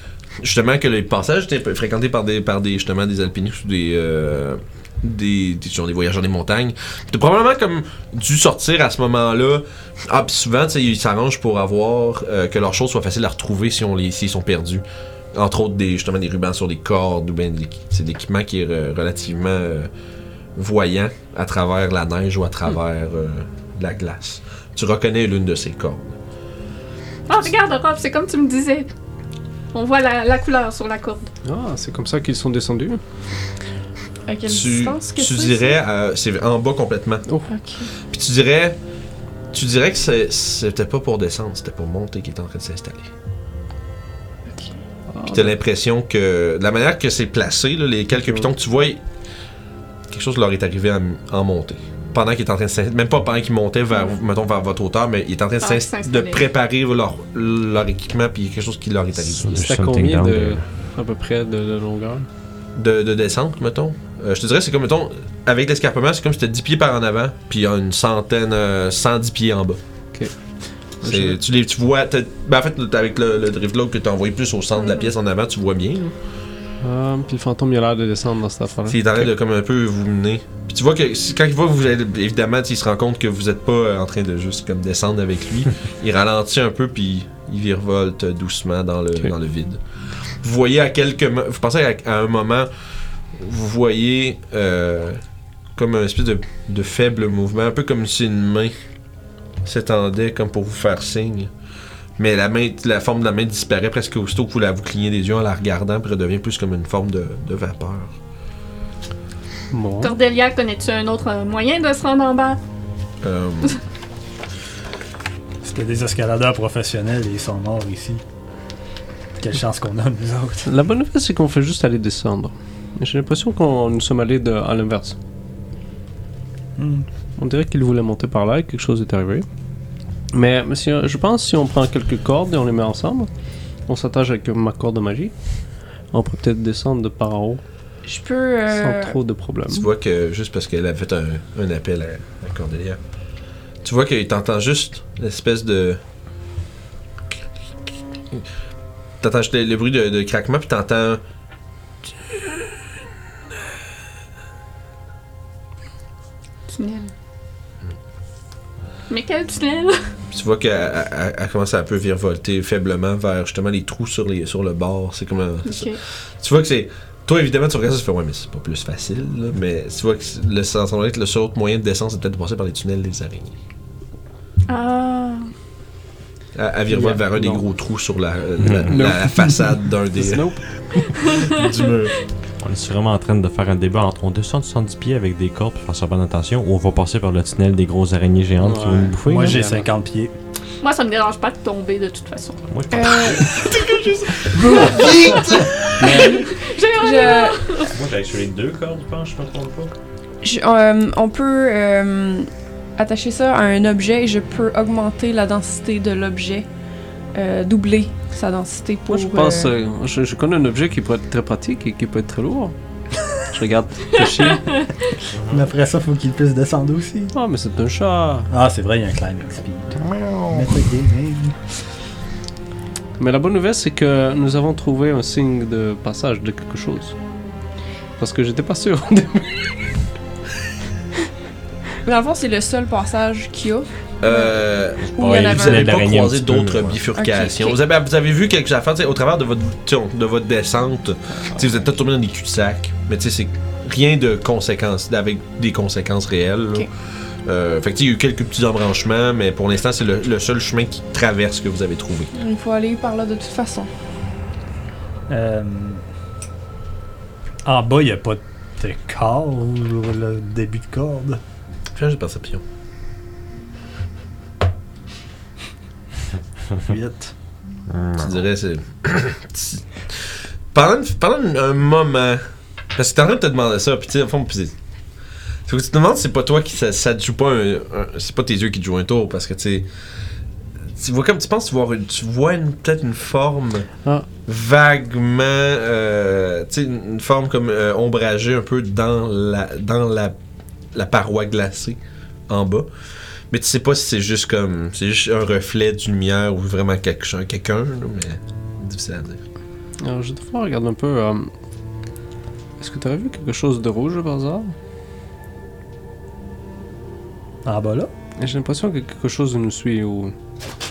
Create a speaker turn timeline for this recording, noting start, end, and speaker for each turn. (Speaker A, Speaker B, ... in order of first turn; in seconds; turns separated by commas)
Speaker A: 0.4-19.9, Speaker A: 20.6-26.1, Speaker B: 27.3-28.9, Speaker B: 29.7-31.3, Speaker C: 31.4-33.0, Speaker D: 34.3-35.8, Speaker A: 34.5-37.2, Speaker D: 37.5-37.9, Speaker A: 38.1-38.8, Speaker A: 39.5-43.1, Speaker A: 45.2-49.0, Speaker A: 50.1-59.7, Speaker B: 55.6-56.5, Speaker E: 59.3-60.6, Speaker C: 59.6-62.3, Speaker A: 62.8-69.8, Speaker C: 71.0-71.4, Speaker A: 71.0-76.1, Speaker B: 74.8-75.1, Speaker C: 76.8-79.3, Speaker A: 78.9-89.8, Speaker A: 90.4-92.7, Speaker A: 93.3-95.2, Speaker A: 95.7-98.7, Speaker A: 99.6-101.5, Speaker A: 102.2-108.1, Speaker C: 109.7-110.1, Speaker B: 110.0-112.6, Speaker A: 113.2-113.8, Speaker F: 115.6-118.2, Speaker F: 119.4-120.7, Speaker C: 120.6-125.2, Speaker F: 126.8-127.1, Speaker C: 127.4-129.4, Speaker C: 130.3-133.3, Speaker C: 133.9-135.3, Speaker C: 136.1-137.6, Speaker D: 138.0-139.2, Speaker C: 138.8-139.9, Speaker A: 139.7-143.0, Speaker A: 143.8-146.0, Speaker A: 149.2-151.2, Speaker B: 156.7-157.1, Speaker B: 159.1-160.0, Speaker A: 160.3-173.6, Speaker B: 165.6-166.0, Speaker B: 174.7-175.5, Speaker A: 176.5-180.5, Speaker C: 176.9-177.6, Speaker E: 178.6-179.1, Speaker C: 178.9-181.1, Speaker A: 181.2-182.1, Speaker E: 182.6-189.6, Speaker C: 188.6-189.9, Speaker F: 189.2-190.3, Speaker B: 190.8-192.7, Speaker E: 192.7-193.6, Speaker D: 192.9-193.7, Speaker A: 193.7-195.0, Speaker F: 194.5-195.7, Speaker D: 194.7-195.1, Speaker C: 196.0-196.3, Speaker D: 196.1-197.6, Speaker B: 196.1-197.9, Speaker E: 197.8-199.9, Speaker D: 200.4-206.7, Speaker D: 207.3-209.7, Speaker C: 209.1-212.7, Speaker C: 213.4-214.7, Speaker B: 214.2-214.9, Speaker E: 215.3-215.6, Speaker F: 215.5-217.3, Speaker C: 217.3-218.5, Speaker F: 218.5-221.6, Speaker C: 223.2-227.1, Speaker C: 228.2-229.8, Speaker D: 232.0-236.0, Speaker A: 234.2-246.9, Speaker E: 235.0-237.0, Speaker D: 237.1-237.8, Speaker A: 247.4-252.3, Speaker D: 252.3-253.9, Speaker F: 255.3-256.0, Speaker F: 257.6-261.4, Speaker A: 261.9-262.6, Speaker F: 266.8-267.3, Speaker E: 267.9-268.3, Speaker A: 268.2-274.7, Speaker A: 275.6-279.9, Speaker A: 280.9-283.9, Speaker A: 284.4-290.4, Speaker A: 290.9-292.0, Speaker A: 292.5-292.9, Speaker A: 293.5-299.4, Speaker C: 300.0-301.5, Speaker C: 302.8-304.7, Speaker F: 307.6-308.1, Speaker C: 308.4-310.3